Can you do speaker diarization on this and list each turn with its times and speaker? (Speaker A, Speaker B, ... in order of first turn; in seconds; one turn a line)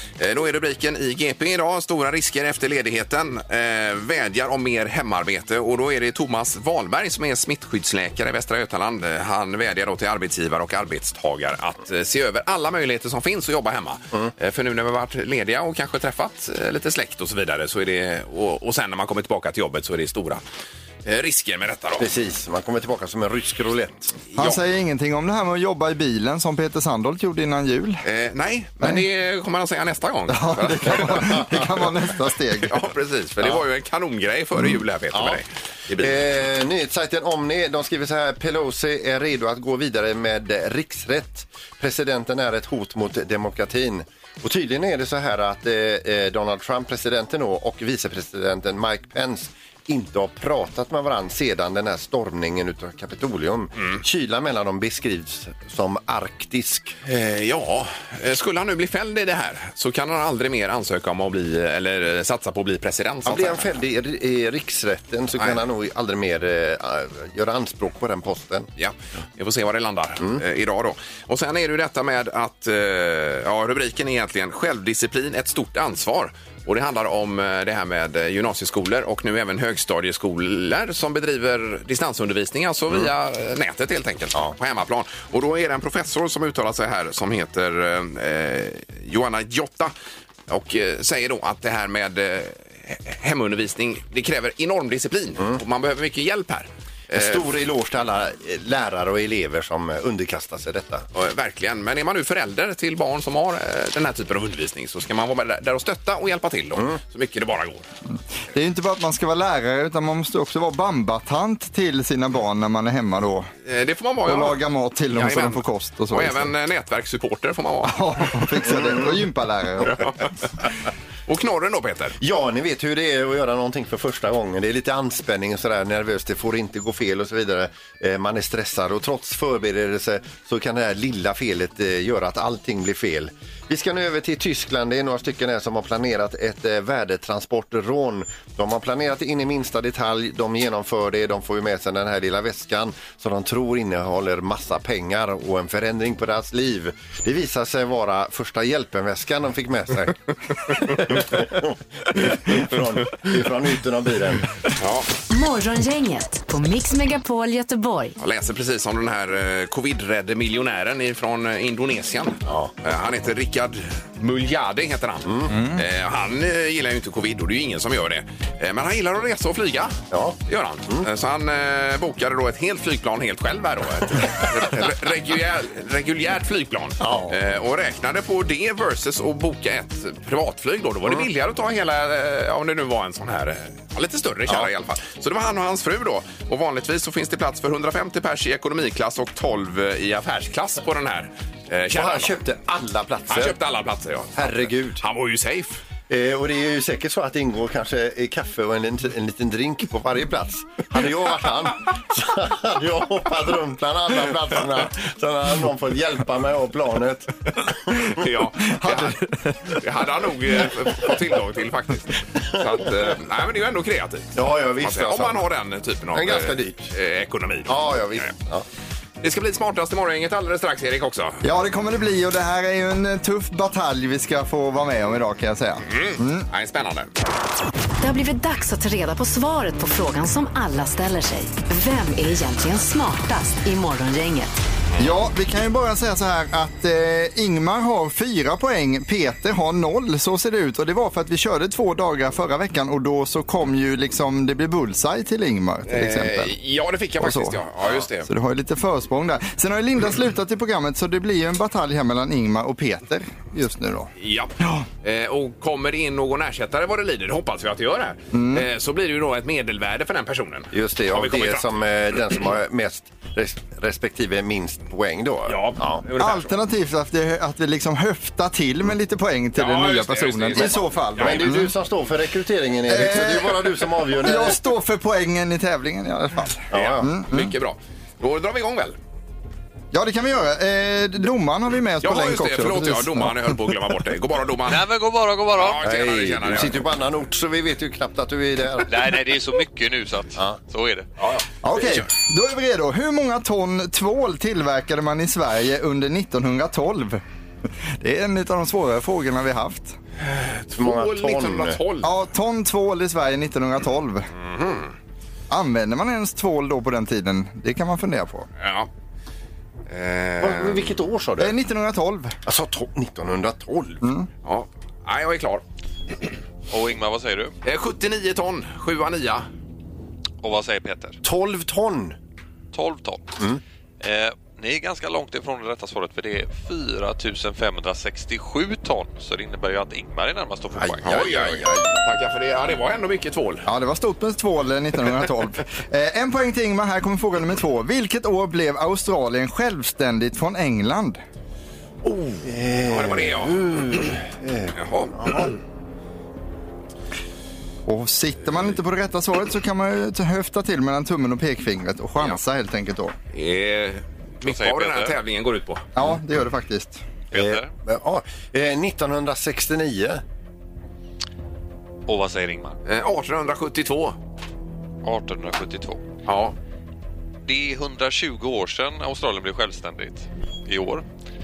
Speaker A: 0.2-20.4
Speaker A: 21.0-22.1
Speaker B: 22.0-24.2
Speaker A: 24.3-24.6
Speaker C: 24.4-28.0
Speaker A: 28.0-31.5
Speaker C: 30.3-32.8
Speaker A: 32.6-36.2
Speaker B: 35.1-35.4
Speaker B: 36.0-56.9
Speaker A: 57.0-63.7
Speaker B: 63.2-68.7
Speaker A: 65.4-65.6
Speaker A: 68.8-89.9
Speaker A: 90.5-97.4
Speaker B: 97.1-101.0
Speaker A: 101.1-107.8
Speaker C: 108.5-113.5
Speaker A: 113.6-114.6
Speaker C: 114.2-116.5
Speaker A: 115.1-118.5
Speaker C: 117.8-120.0
Speaker B: 118.8-119.0
Speaker A: 119.8-120.7
Speaker A: 121.3-122.2
Speaker B: 122.2-154.5
Speaker A: 154.8-155.1
Speaker D: 155.3-158.2
Speaker A: 158.2-192.3
Speaker B: 162.4-162.7
Speaker B: 165.2-165.6
Speaker C: 165.5-165.8
Speaker B: 170.1-170.4
Speaker B: 177.0-177.3
Speaker B: 191.9-193.6
Speaker A: 193.3-195.8
Speaker B: 194.3-195.0
Speaker B: 196.1-208.1
Speaker A: 208.0-218.3
Speaker C: 208.7-209.8
Speaker B: 214.3-215.4
Speaker B: 216.1-216.9
Speaker B: 217.7-218.6
Speaker A: 219.2-221.4
Speaker C: 221.4-226.5
Speaker A: 225.8-227.1
Speaker D: 228.0-234.6
Speaker C: 235.0-246.5
Speaker A: 245.9-248.3
Speaker C: 247.2-247.6
Speaker C: 248.2-254.8
Speaker A: 254.2-261.6
Speaker C: 258.3-258.6
Speaker B: 260.7-266.0
Speaker A: 265.5-266.5
Speaker C: 266.2-271.7
Speaker A: 269.5-271.5
Speaker B: 270.6-274.6
Speaker C: 272.9-273.6
Speaker C: 274.2-277.5
Speaker B: 276.7-277.1
Speaker A: 276.7-278.9
Speaker C: 279.9-283.7
Speaker A: 282.0-284.8
Speaker E: 284.7-285.8
Speaker A: 285.6-286.8
Speaker B: 285.8-288.9
Speaker E: 288.9-291.1
Speaker A: 291.2-292.0
Speaker C: 291.6-297.2
Speaker C: 298.0-299.9
Speaker A: 300.2-302.1
Speaker B: 300.8-301.8
Speaker C: 302.0-304.3
Speaker A: 304.4-304.9
Speaker C: 305.5-308.5
Speaker A: 308.6-308.9
Speaker A: 309.9-310.9
Speaker B: 310.4-311.5
Speaker C: 311.4-312.4
Speaker B: 312.4-314.0
Speaker C: 314.0-314.3
Speaker A: 314.4-315.6
Speaker E: 316.7-317.5
Speaker A: 317.6-319.5
Speaker E: 320.4-321.2
Speaker B: 321.2-322.2
Speaker E: 322.7-323.4
Speaker E: 324.0-331.2
Speaker B: 330.7-332.0
Speaker A: 331.0-333.7
Speaker C: 333.6-341.2
Speaker A: 342.1-343.6
Speaker B: 342.4-345.5
Speaker A: 344.7-345.5
Speaker C: 347.9-353.1
Speaker A: 353.3-355.8
Speaker E: 354.4-355.1
Speaker C: 355.9-357.0
Speaker E: 357.3-357.7
Speaker B: 357.3-360.2
Speaker E: 362.1-362.8
Speaker A: 362.9-364.1
Speaker E: 365.0-366.0
Speaker A: 366.2-366.6
Speaker E: 367.4-371.0